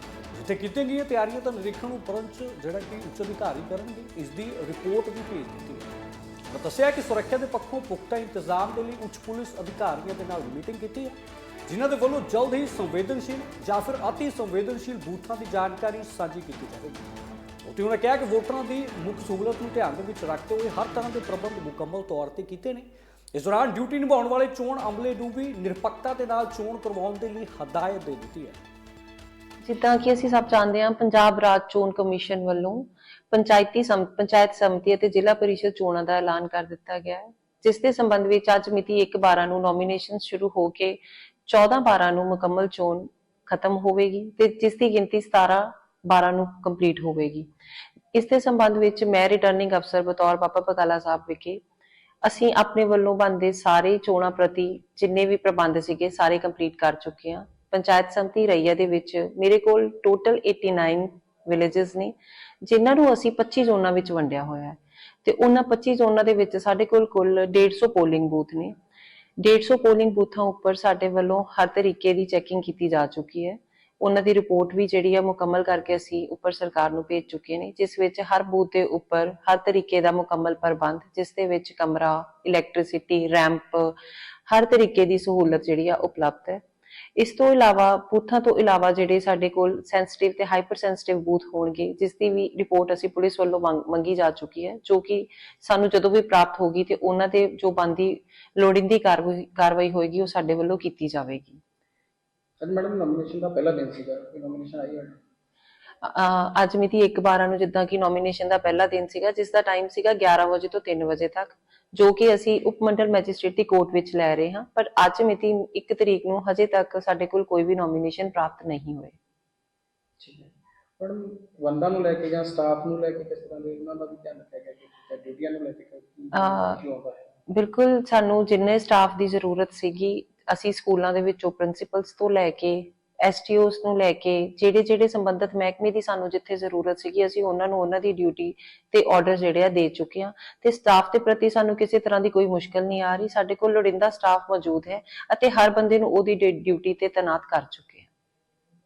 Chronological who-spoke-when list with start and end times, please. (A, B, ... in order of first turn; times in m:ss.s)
0:00.3-0:05.9 A
0:06.5-0:11.2 A
0:11.7-0:17.1 A
0:17.6-0:28.6 A
0:29.6-0:47.5 B
0:48.1-0:51.6 B
0:52.2-1:08.7 B
1:09.4-1:24.0 B
1:24.5-1:26.6 B
1:27.2-1:41.6 B
1:42.6-1:45.2 C
1:46.0-1:59.2 B
2:00.2-2:07.3 C
2:06.3-2:06.8 B
2:07.5-2:28.1 B